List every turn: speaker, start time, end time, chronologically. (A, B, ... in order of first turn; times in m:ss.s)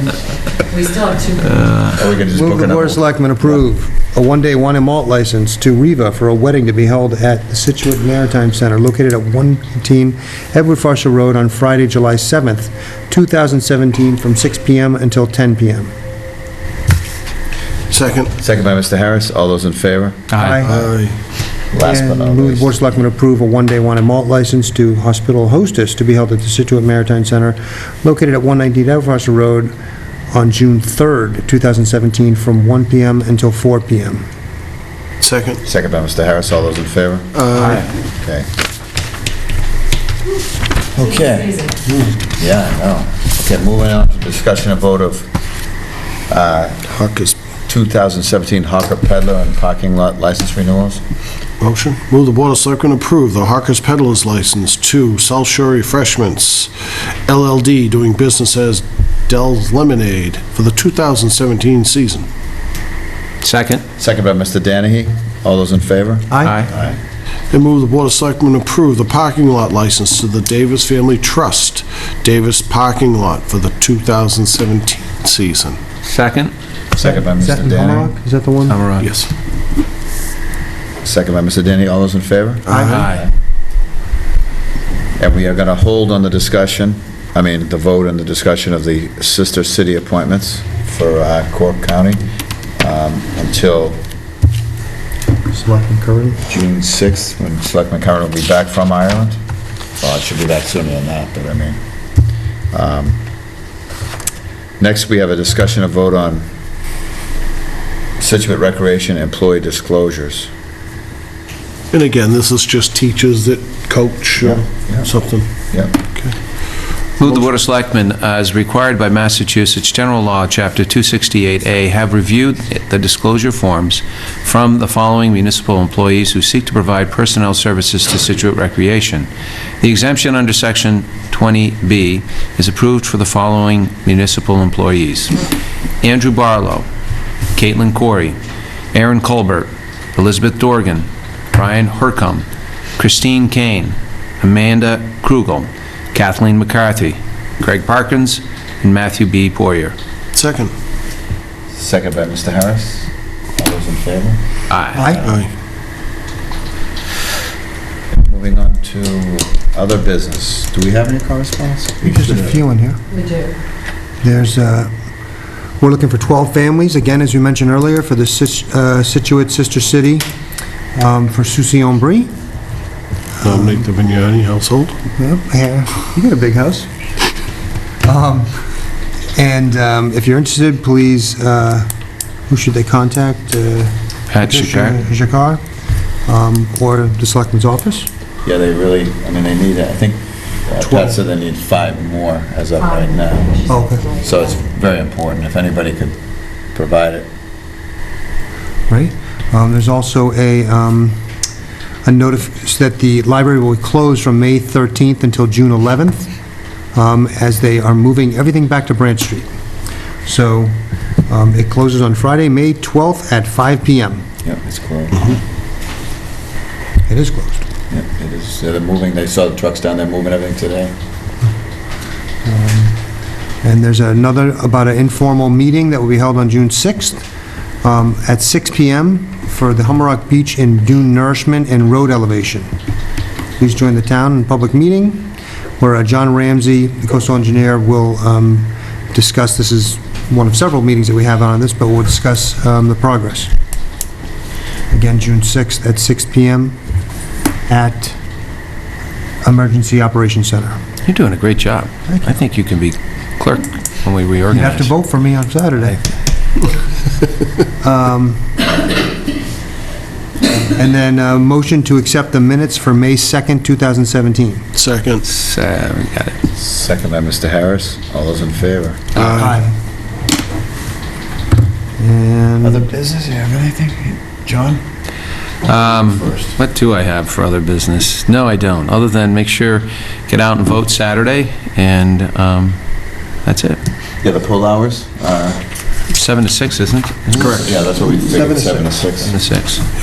0:00.7-0:01.5 A
0:01.4-0:02.0 B
0:01.9-0:03.6 C
0:02.3-0:15.9 D
0:17.9-0:18.3 E
0:18.4-0:20.3 C
0:20.3-0:20.6 B
0:20.4-0:20.8 D
0:20.6-0:21.2 E
0:21.7-0:22.7 C
0:21.8-0:29.7 D
0:30.3-0:34.3 D
0:35.2-0:35.6 E
0:35.6-0:37.4 C
0:37.3-0:37.8 E
0:37.5-0:37.9 B
0:38.2-0:38.5 C
0:40.9-0:45.3 C
0:46.3-0:46.8 C
0:46.8-0:47.4 E
0:47.7-0:51.0 C
0:51.6-1:02.2 E
1:03.4-1:03.8 B
1:04.0-1:07.0 C
1:06.3-1:06.6 D
1:06.4-1:06.7 B
1:07.5-1:15.8 E
1:16.0-1:16.5 B
1:16.9-1:18.1 C
1:17.0-1:18.8 D
1:18.7-1:19.1 B
1:19.0-1:19.3 E
1:21.0-1:23.3 C
1:22.7-1:23.1 E
1:22.7-1:23.0 D
1:22.9-1:23.2 B
1:25.2-1:32.2 C
1:32.8-1:34.0 C
1:35.5-1:36.4 D
1:36.4-1:39.4 C
1:40.0-1:41.8 C
1:42.7-1:43.2 C
1:44.8-1:46.5 C
1:48.2-1:50.5 C
1:51.9-1:55.5 E
1:54.4-1:55.1 C
1:55.7-1:56.0 C
1:57.2-2:09.3 B
1:57.2-1:57.6 E
2:09.8-2:15.4 B
2:16.0-2:16.9 B
2:17.5-2:18.4 B
2:18.9-2:22.4 B
2:23.0-2:29.9 B
2:30.3-2:30.7 E
2:31.7-2:34.4 C
2:34.7-2:35.0 B
2:34.9-2:35.4 C
2:34.9-2:35.2 D
2:35.2-2:35.5 E
2:38.1-2:42.6 C
2:42.0-2:43.0 D
2:43.1-2:43.5 A
2:44.2-2:44.9 D
2:45.8-2:50.2 D
2:50.9-2:52.3 D
2:53.4-2:53.8 D
2:53.4-2:55.0 E
2:55.2-2:56.9 D
2:58.0-2:58.5 D
2:59.3-3:01.9 D
3:02.5-3:05.6 D
3:04.3-3:05.0 B
3:06.2-3:08.1 D
3:08.4-3:13.6 C
3:10.8-3:11.2 D
3:12.8-3:14.5 A
3:13.7-3:14.1 D
3:14.2-3:16.2 C
3:16.7-3:17.3 C
3:18.9-3:21.2 D
3:22.0-3:26.3 D
3:26.9-3:29.5 D
3:30.2-3:34.3 D
3:34.4-3:35.4 C
3:37.1-3:37.6 D
3:37.9-3:40.9 C
3:42.4-3:43.0 D
3:43.6-3:47.2 D
3:47.8-3:52.7 D
3:53.6-4:03.5 D
4:04.9-4:06.8 D
4:07.7-4:08.2 D
4:09.4-4:10.8 D
4:11.0-4:14.9 B
4:12.1-4:12.3 D
4:14.5-4:16.0 D
4:17.8-4:18.6 D
4:20.6-4:24.6 D
4:24.7-4:25.2 E
4:25.2-4:26.4 B
4:26.6-4:29.2 C
4:29.2-4:29.5 E
4:29.2-4:29.7 D
4:32.0-4:32.8 D
4:32.6-4:34.8 C
4:35.6-4:42.8 B
4:35.6-4:36.5 C
4:43.4-4:43.8 B
4:44.2-4:45.6 C
4:46.1-4:47.6 B
4:47.4-4:49.3 C
4:48.2-4:49.0 D
4:49.2-4:49.8 B